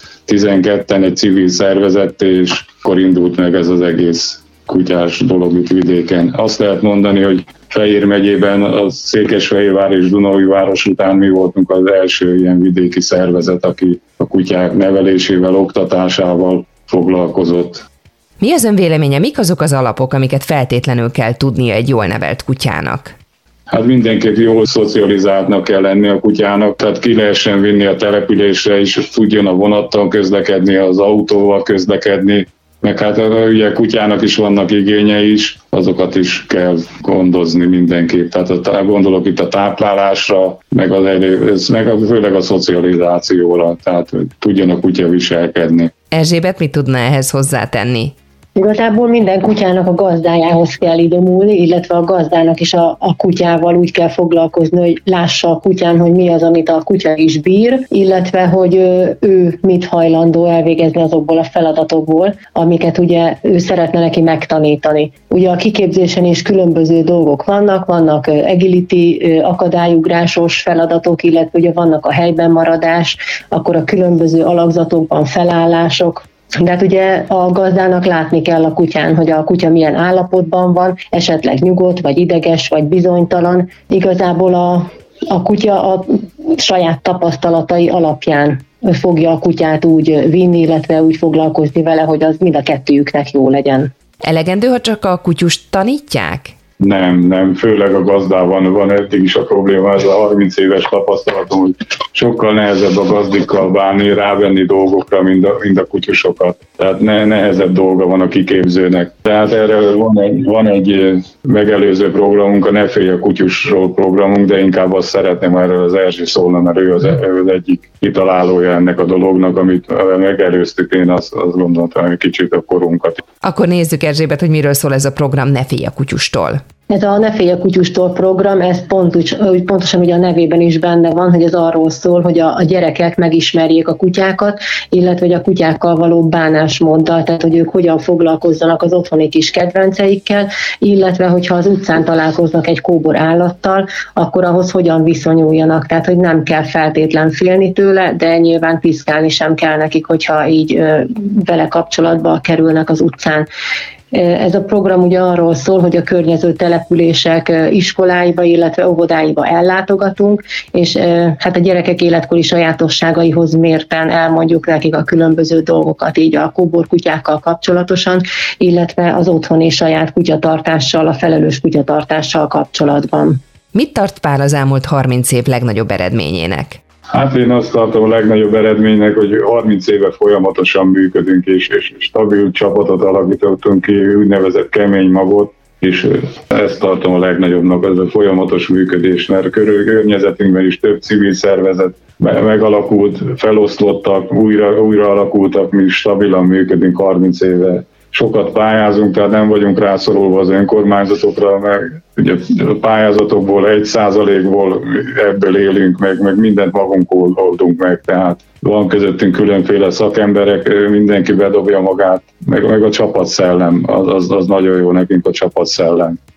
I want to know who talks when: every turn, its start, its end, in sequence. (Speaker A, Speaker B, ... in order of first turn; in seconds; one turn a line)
Speaker A: 0.3-17.8
Speaker B: 18.4-23.1
Speaker A: 23.7-45.9
Speaker B: 46.1-48.1
Speaker C: 48.5-93.9
Speaker B: 94.2-96.5
Speaker A: 96.8-123.2
Speaker B: 123.4-126.6
Speaker C: 126.9-153.5
Speaker C: 154.1-173.4
Speaker B: 173.7-176.8
Speaker A: 177.1-216.2